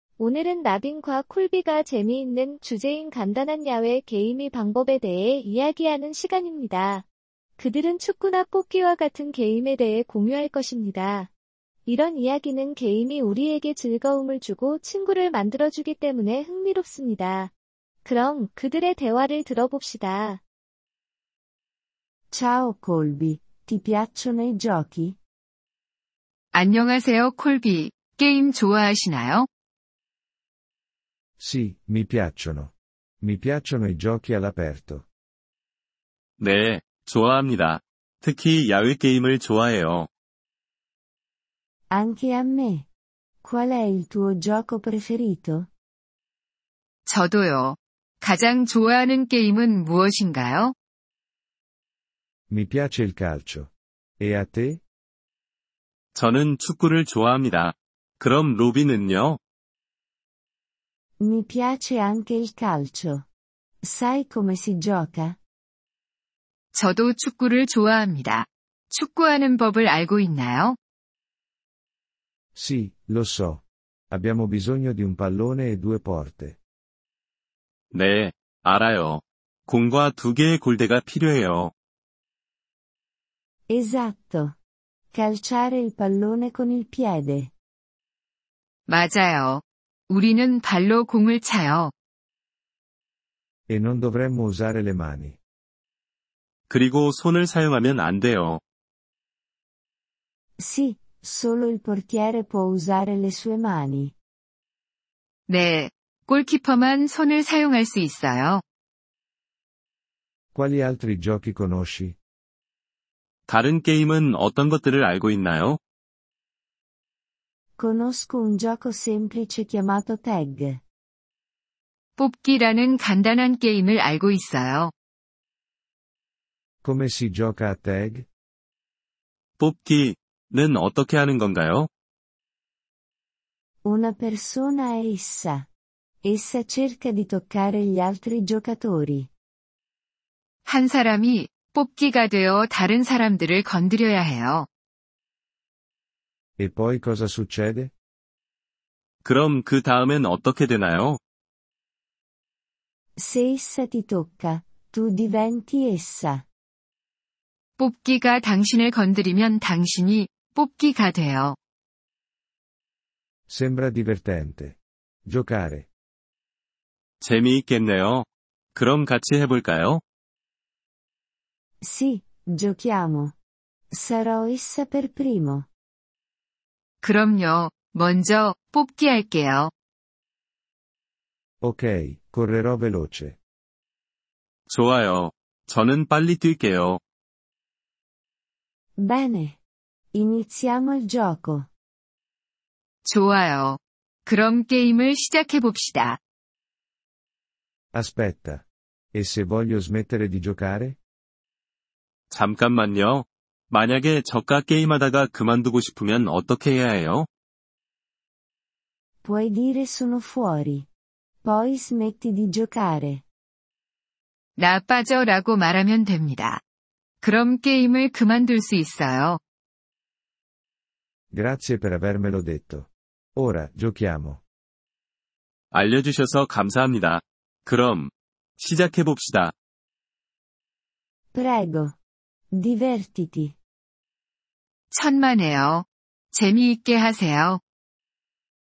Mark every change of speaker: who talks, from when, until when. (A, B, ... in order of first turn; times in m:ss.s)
0:00.2-0:07.1 A
0:07.6-0:11.3 A
0:11.9-0:17.5 A
0:18.0-0:20.4 A
0:22.3-0:25.2 B
0:26.5-0:29.5 C
0:31.4-0:35.0 D
0:36.4-0:40.1 E
0:41.9-0:42.9 B
0:43.4-0:45.7 B
0:47.1-0:50.7 C
0:52.5-0:54.8 D
0:56.1-0:59.4 E
1:01.2-1:03.2 B
1:03.8-1:05.4 B
1:06.7-1:10.8 C
1:12.6-1:16.6 D
1:17.9-1:21.7 E
1:23.7-1:24.6 B
1:25.1-1:27.5 B
1:28.9-1:31.9 C
1:33.7-1:35.4 D
1:36.7-1:38.6 E
1:40.6-1:44.1 B
1:45.5-1:48.6 C
1:50.5-1:52.2 D
1:53.5-1:55.8 E
1:57.8-2:00.8 B
2:02.2-2:04.9 C
2:06.8-2:08.3 D
2:09.6-2:11.9 E
2:13.8-2:15.7 B
2:16.2-2:19.3 B
2:20.7-2:24.7 C
2:26.6-2:27.9 D
2:29.2-2:31.2 E
2:33.2-2:36.4 B
2:37.8-2:41.6 C
2:43.5-2:45.9 D
2:47.2-2:50.0 E
2:51.8-2:53.4 B
2:53.9-2:55.7 B
2:57.0-2:59.7 C
3:01.6-3:03.4 D
3:04.7-3:07.0 E
3:09.0-3:09.6 B
3:10.1-3:11.7 B
3:13.0-3:16.2 C
3:17.9-3:21.0 D
3:22.3-3:27.3 E
3:29.2-3:30.9 B
3:31.4-3:33.2 B
3:34.6-3:36.6 C
3:37.2-3:39.4 C
3:41.3-3:44.4 D
3:45.7-3:49.5 E
3:51.3-3:52.0 B
3:52.5-3:53.6 B
3:54.9-3:57.6 C